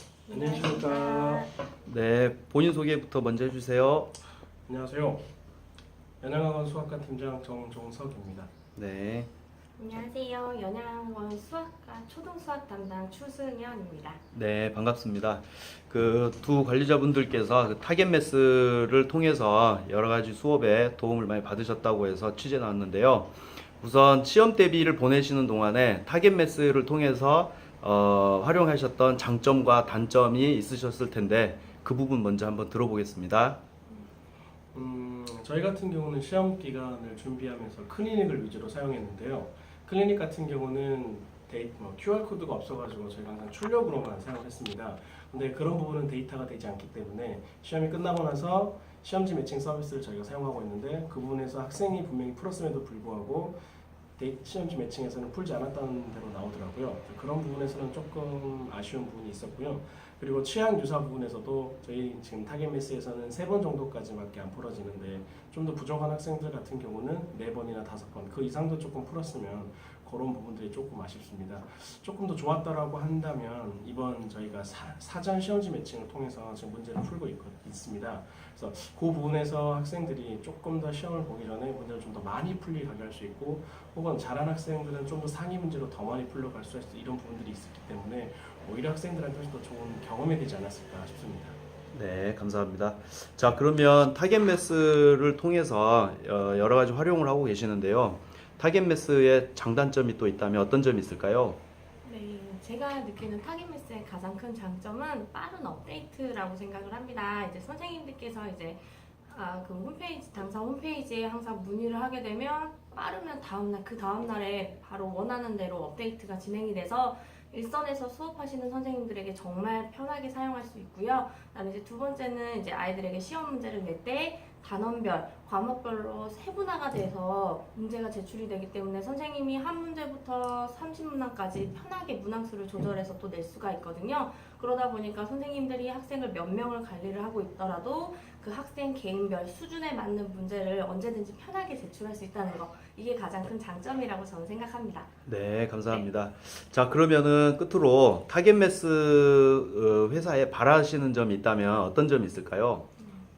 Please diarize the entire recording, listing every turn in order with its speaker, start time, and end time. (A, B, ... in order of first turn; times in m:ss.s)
0:00.2-0:01.5 A
0:00.3-0:01.5 B
0:01.8-0:04.1 C
0:04.7-0:05.2 B
0:06.2-0:08.5 B
0:08.8-0:09.3 C
0:09.8-0:14.2 A
0:14.3-0:33.6 C
0:34.7-0:53.6 B
0:54.2-1:31.6 B
1:31.9-1:41.6 C
1:42.0-2:25.1 A
2:25.2-2:32.9 C
2:33.0-2:33.2 A